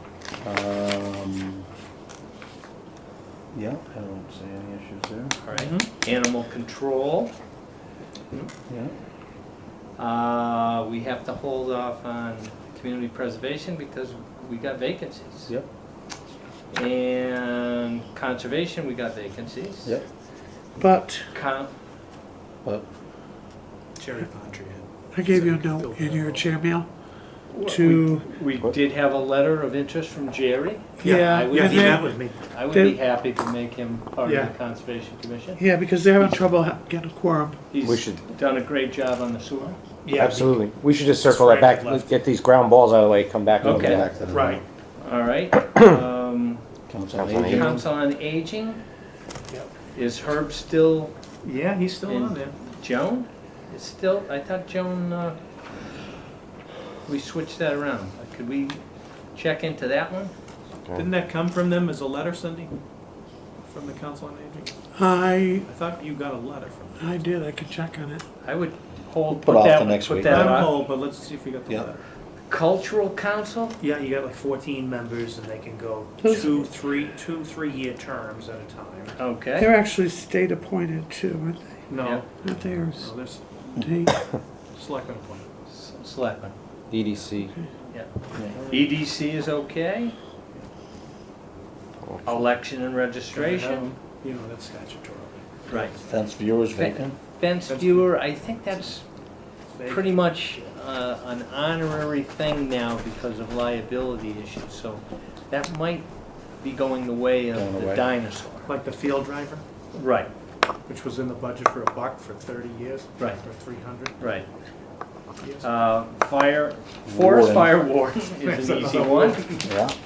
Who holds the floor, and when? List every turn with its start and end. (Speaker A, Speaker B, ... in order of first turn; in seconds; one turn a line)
Speaker A: 0.4-1.7
Speaker A: 3.5-5.4
Speaker B: 5.4-7.3
Speaker C: 5.5-5.9
Speaker A: 8.7-8.9
Speaker B: 10.0-15.6
Speaker B: 16.7-20.0
Speaker D: 20.8-21.3
Speaker B: 21.3-21.7
Speaker C: 24.0-26.5
Speaker D: 25.1-28.3
Speaker B: 27.5-35.6
Speaker C: 31.0-32.4
Speaker D: 31.0-32.2
Speaker D: 32.7-33.0
Speaker C: 34.2-34.5
Speaker D: 35.6-37.6
Speaker B: 37.7-39.8
Speaker E: 37.8-38.2
Speaker C: 40.0-42.1
Speaker E: 40.1-44.1
Speaker B: 43.6-44.1
Speaker A: 43.6-44.6
Speaker C: 44.3-44.6
Speaker B: 45.0-46.6
Speaker A: 46.9-47.9
Speaker E: 47.1-47.7
Speaker B: 47.4-48.8
Speaker B: 49.9-51.1
Speaker C: 51.4-52.6
Speaker B: 52.1-55.4
Speaker B: 57.0-58.8
Speaker B: 59.3-60.3
Speaker C: 61.0-62.8
Speaker C: 63.6-64.7
Speaker D: 65.0-65.7
Speaker C: 65.7-67.2
Speaker D: 67.0-68.2
Speaker B: 68.4-70.9
Speaker A: 69.3-70.6
Speaker C: 70.2-72.0
Speaker B: 72.5-73.8
Speaker C: 73.8-79.2
Speaker D: 76.2-76.6
Speaker B: 79.2-79.7
Speaker D: 79.6-81.9
Speaker C: 81.9-82.3
Speaker B: 82.0-82.2
Speaker D: 82.4-83.1
Speaker C: 83.0-83.7
Speaker D: 83.8-84.1
Speaker C: 84.8-85.5
Speaker B: 85.7-86.5
Speaker E: 86.9-87.5
Speaker B: 87.9-90.2
Speaker A: 88.4-88.6
Speaker E: 92.1-92.4
Speaker B: 92.2-93.9
Speaker C: 93.3-95.9
Speaker B: 95.7-96.0
Speaker A: 96.1-97.2
Speaker B: 96.7-99.0
Speaker C: 97.7-98.2
Speaker C: 99.7-100.7
Speaker B: 99.9-106.1
Speaker B: 106.6-108.7
Speaker A: 107.5-108.1
Speaker C: 108.7-109.6
Speaker B: 109.9-110.3
Speaker C: 110.9-114.3
Speaker B: 113.2-113.4
Speaker B: 114.2-114.5
Speaker C: 115.4-115.7
Speaker B: 115.6-119.6
Speaker A: 117.0-117.8
Speaker C: 118.4-119.7
Speaker A: 119.6-120.0